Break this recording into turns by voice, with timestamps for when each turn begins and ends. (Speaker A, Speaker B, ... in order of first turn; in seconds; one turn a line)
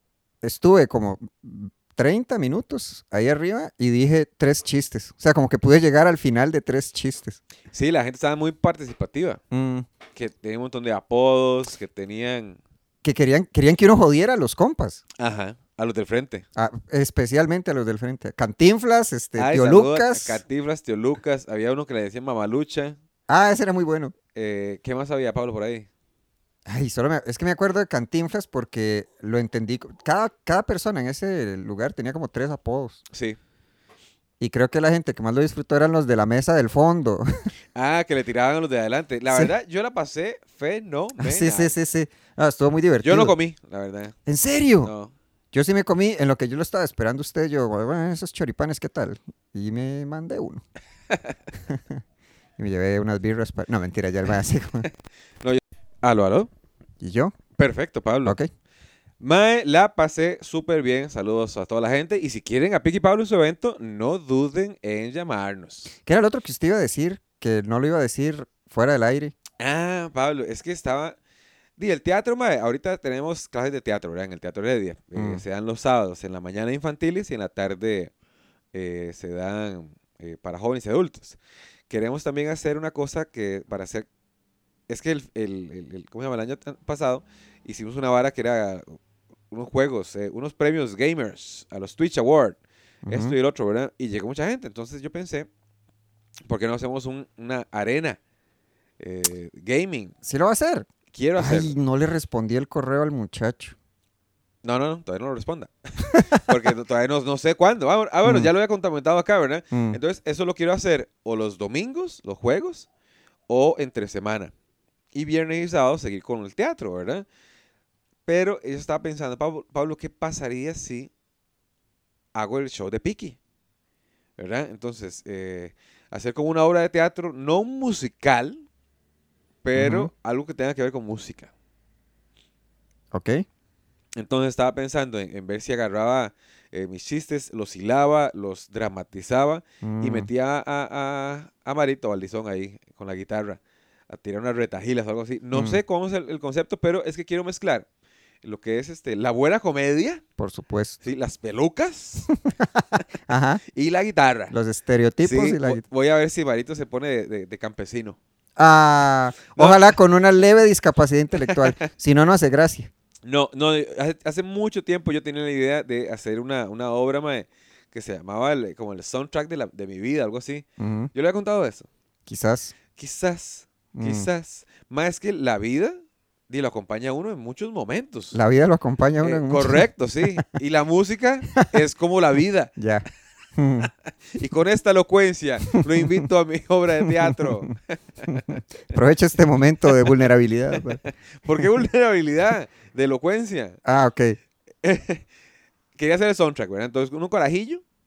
Speaker A: 0.4-7.4
Speaker B: 7.7-9.4
Speaker A: 9.5-9.9
Speaker B: 10.2-12.6
Speaker A: 13.0-15.0
Speaker B: 15.2-16.4
Speaker A: 16.6-20.4
Speaker B: 19.4-23.0
Speaker A: 23.3-24.1
Speaker B: 24.3-25.9
Speaker A: 26.7-33.0
Speaker B: 33.1-33.4
Speaker A: 34.4-37.3
Speaker B: 37.8-41.7
Speaker A: 41.2-43.4
Speaker B: 43.0-44.1
Speaker A: 44.3-44.9
Speaker B: 44.8-45.1
Speaker A: 45.5-50.6
Speaker A: 51.7-52.0
Speaker A: 52.6-54.9
Speaker B: 55.4-56.5
Speaker A: 57.0-57.4
Speaker B: 57.5-58.4
Speaker B: 59.2-65.9
Speaker A: 66.0-69.3
Speaker B: 69.6-71.2
Speaker B: 71.8-78.1
Speaker A: 75.2-75.4
Speaker B: 78.7-81.4
Speaker B: 81.9-84.1
Speaker B: 84.9-89.0
Speaker B: 89.5-95.5
Speaker A: 93.0-93.4
Speaker B: 96.5-98.2
Speaker B: 99.0-100.1
Speaker A: 100.2-103.8
Speaker B: 101.1-101.7
Speaker B: 104.6-112.9
Speaker A: 108.2-108.5
Speaker A: 109.7-110.0
Speaker B: 113.5-114.5
Speaker B: 115.1-117.3
Speaker B: 118.3-121.1
Speaker B: 122.3-123.4
Speaker B: 124.4-128.7
Speaker B: 129.6-131.5
Speaker A: 129.8-130.1
Speaker A: 133.1-133.4
Speaker B: 134.2-147.9
Speaker A: 139.8-140.3
Speaker A: 145.5-145.8
Speaker B: 148.4-150.2
Speaker A: 150.4-151.0
Speaker B: 151.0-152.3
Speaker A: 152.5-153.6
Speaker B: 153.7-154.5
Speaker A: 154.5-155.8
Speaker B: 155.2-158.2
Speaker A: 158.6-162.9
Speaker B: 159.6-160.0
Speaker B: 161.4-161.7
Speaker B: 163.2-171.9
Speaker A: 170.8-171.1
Speaker A: 172.3-172.8
Speaker B: 173.0-176.0
Speaker A: 173.9-174.3
Speaker B: 176.5-178.4
Speaker A: 178.3-180.5
Speaker B: 179.2-182.7
Speaker A: 182.8-183.9
Speaker B: 184.3-188.6
Speaker A: 185.8-186.3
Speaker A: 187.1-187.7
Speaker A: 188.3-191.0
Speaker B: 189.9-190.1
Speaker B: 190.7-193.8
Speaker A: 193.8-194.4
Speaker B: 194.8-195.2
Speaker B: 195.9-197.8